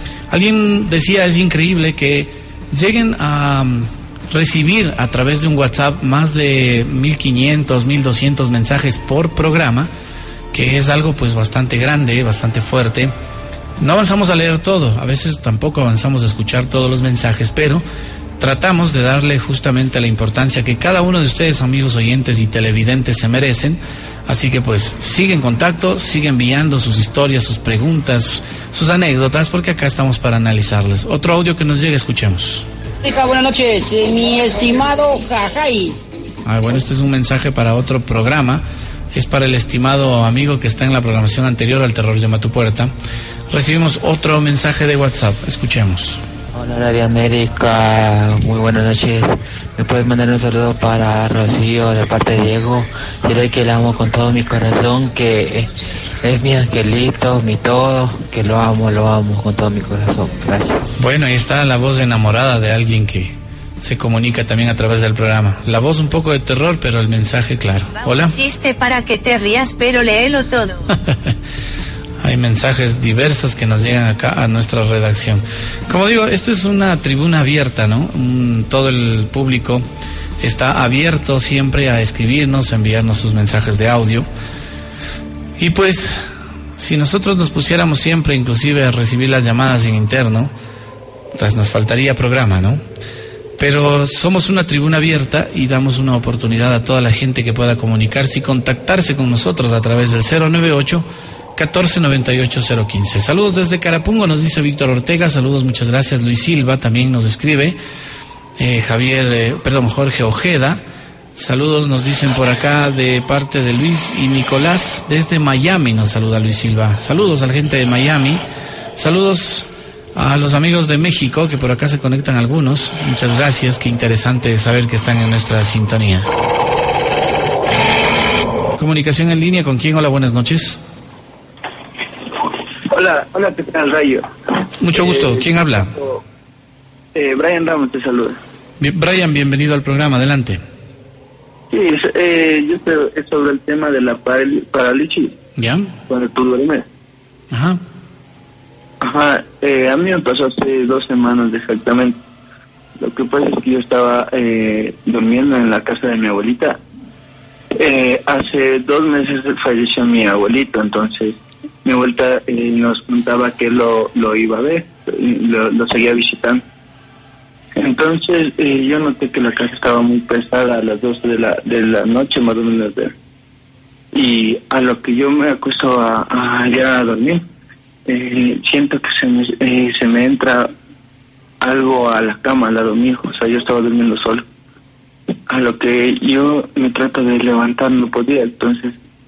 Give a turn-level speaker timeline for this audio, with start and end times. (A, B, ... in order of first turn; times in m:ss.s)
0:00.3-0:09.9 A
0:10.5-0:13.1 A
0:13.8-0:17.8 A
0:18.4-0:32.6 A
0:33.0-0:36.0 B
0:36.4-0:42.9 A
0:43.5-0:46.2 A
0:46.5-0:55.7 C
0:56.2-1:00.8 C
1:01.0-1:08.4 A
1:08.1-1:10.9 D
1:12.2-1:19.8 A
1:20.4-1:24.3 A
1:25.6-1:26.2 A
1:26.8-1:30.5 A
1:31.3-1:32.8 A
1:33.6-1:41.0 A
1:41.6-1:47.8 A
1:48.6-1:50.8 A
1:51.4-1:58.4 A
1:59.0-2:06.3 A
2:08.8-2:10.8 A
2:12.9-2:14.3 E
2:14.8-2:15.9 A
2:14.9-2:16.2 E
2:17.1-2:18.4 E
2:18.8-2:20.6 A
2:21.7-2:25.3 E
2:25.6-2:25.9 A
2:26.1-2:26.8 E
2:27.5-2:27.8 A
2:29.0-2:32.2 E
2:33.0-2:36.8 E
2:37.7-2:46.6 E
2:47.8-2:53.1 E
2:54.1-2:57.4 E
2:58.1-3:00.7 E
3:01.6-3:04.4 E
3:05.5-3:09.0 E